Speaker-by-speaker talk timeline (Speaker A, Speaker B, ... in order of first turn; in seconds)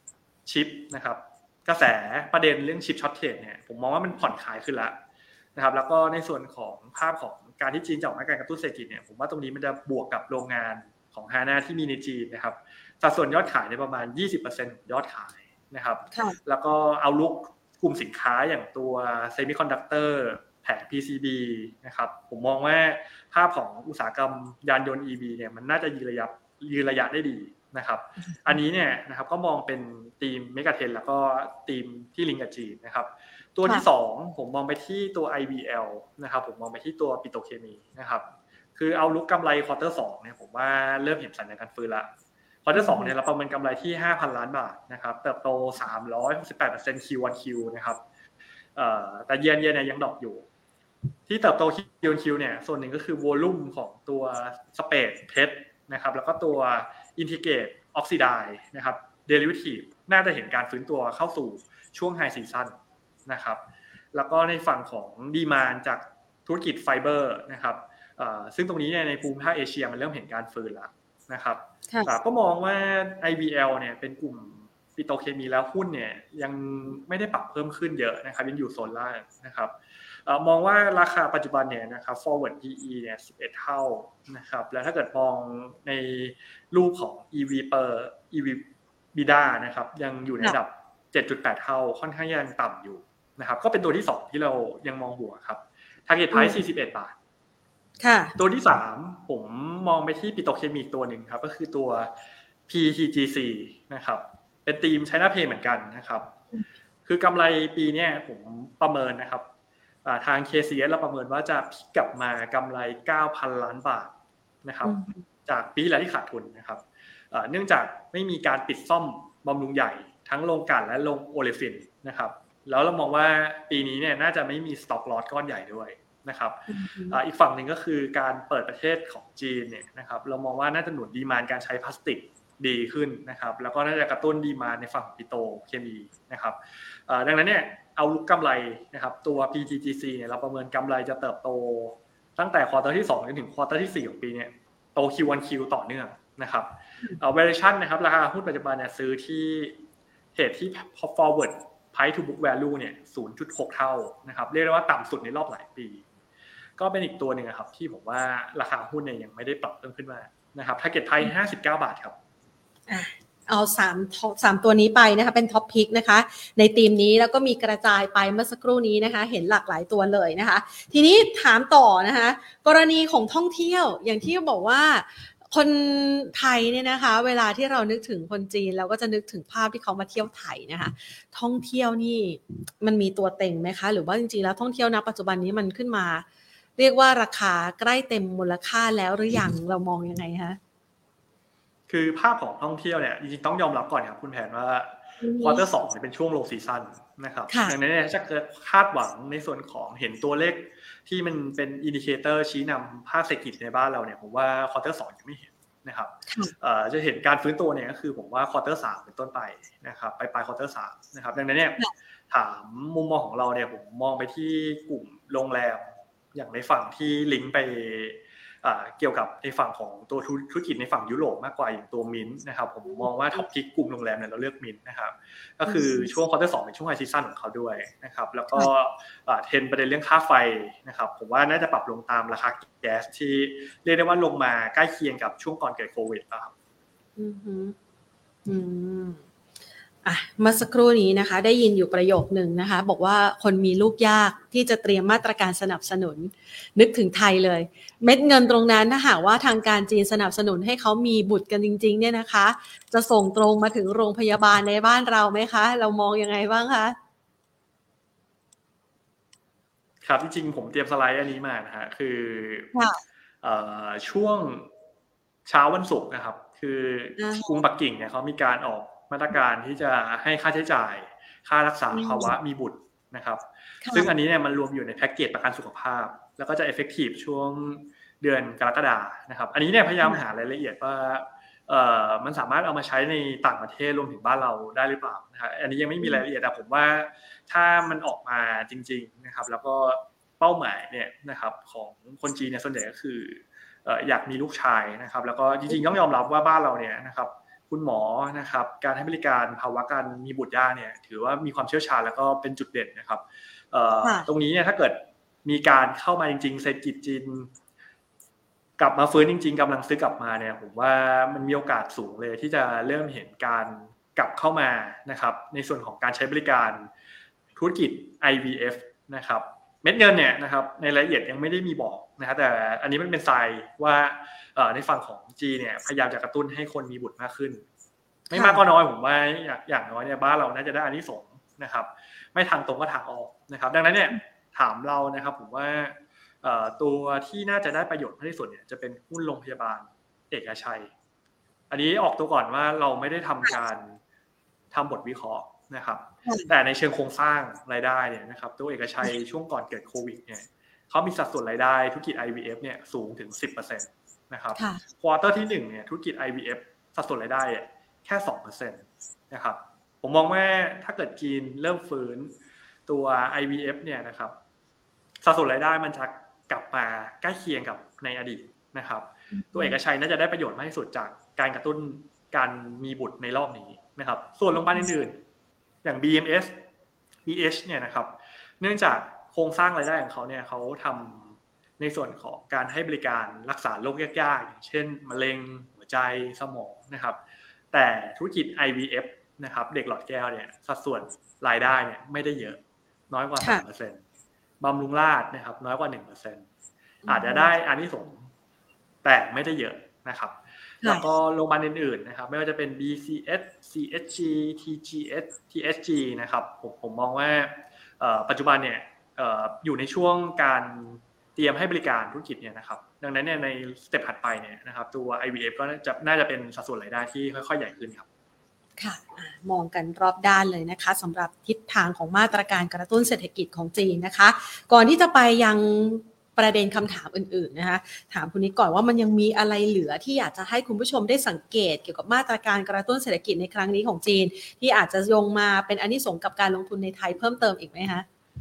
Speaker A: 0.5-4.9, 5.5-42.1, 42.6-48.0, 48.7-50.5, 51.3-63.6, 64.1-97.1, 98.4-102.1, 102.7-106.3, 107.0-109.5, 110.0-149.8, 150.3-156.0, 156.8-162.2, 191.9-215.8, 216.3-236.5, 260.0-262.7, 263.4-264.7, 265.4-307.5, 308.8-316.9, 317.6-327.6, 328.3-340.9, 341.7-344.0, 344.7-362.3, 362.9-364.4, 365.2-375.2, 375.8-376.5, 377.2-387.2, 387.7-394.0, 394.6-396.4, 397.1-398.3, 399.0-418.1
Speaker B: 16.1-16.4, 28.3-28.6, 42.8-43.1, 96.3-96.6, 98.0-98.3, 114.8-115.2, 126.7-127.2, 162.9-186.2, 186.8-190.6, 195.2-195.6, 197.5-197.8, 206.3-206.5, 225.7-226.1, 237.2-237.7, 238.4-239.2, 240.0-256.9, 262.7-263.0, 267.2-267.5, 271.9-272.3, 273.8-274.1, 328.3-328.6, 346.2-346.5, 354.6-354.8, 369.3-369.8, 397.0-397.5, 400.8-401.1, 418.8-438.1